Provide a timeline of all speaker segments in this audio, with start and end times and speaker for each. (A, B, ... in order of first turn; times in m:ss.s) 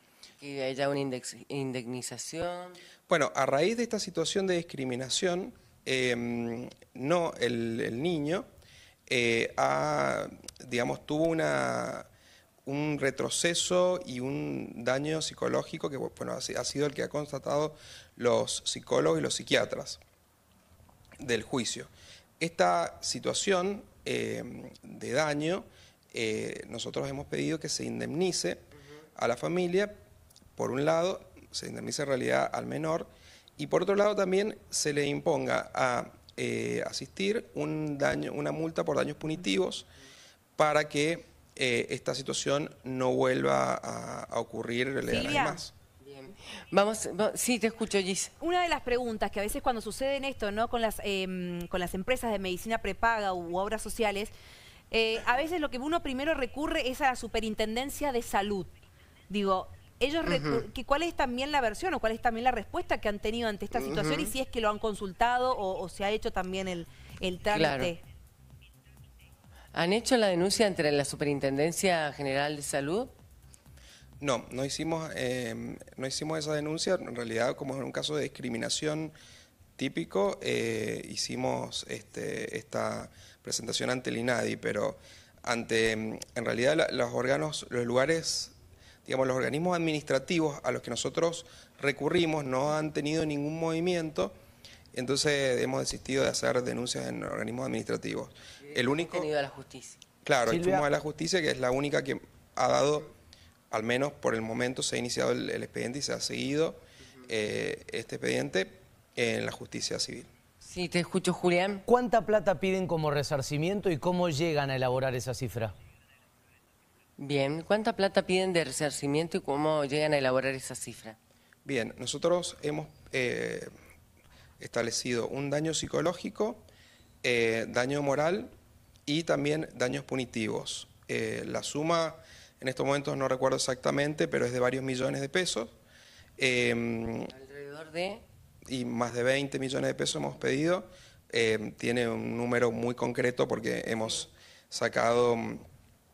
0:00.4-0:02.8 A
0:03.1-0:08.4 B
0:09.1-0:12.1 B
0:12.6-0:20.0 B
0:21.2-0:30.0 B
0:30.6-0:39.8 B
0:40.6-0:45.7 B
0:45.1-0:45.6 C
0:46.0-0:48.3 A
0:48.4-0:54.3 C
0:54.9-0:58.7 C
0:59.3-1:08.0 C
1:00.2-1:00.6 A
1:03.7-1:04.3 A
1:07.5-1:07.9 A
1:09.7-1:13.1 A
1:14.2-1:19.1 B
1:19.8-1:28.5 B
1:29.0-1:34.3 B
1:34.9-1:39.3 B
1:38.6-1:40.0 A
1:40.2-1:43.1 B
1:40.4-1:40.8 D
1:43.7-1:50.3 B
1:50.6-1:51.8 A
1:51.9-1:55.7 D
1:57.2-2:01.2 A
2:01.6-2:03.7 B
2:04.6-2:06.6 B
2:07.2-2:08.5 B
2:09.0-2:15.8 B
2:16.4-2:17.3 B
2:17.3-2:18.2 A
2:18.7-2:25.6 B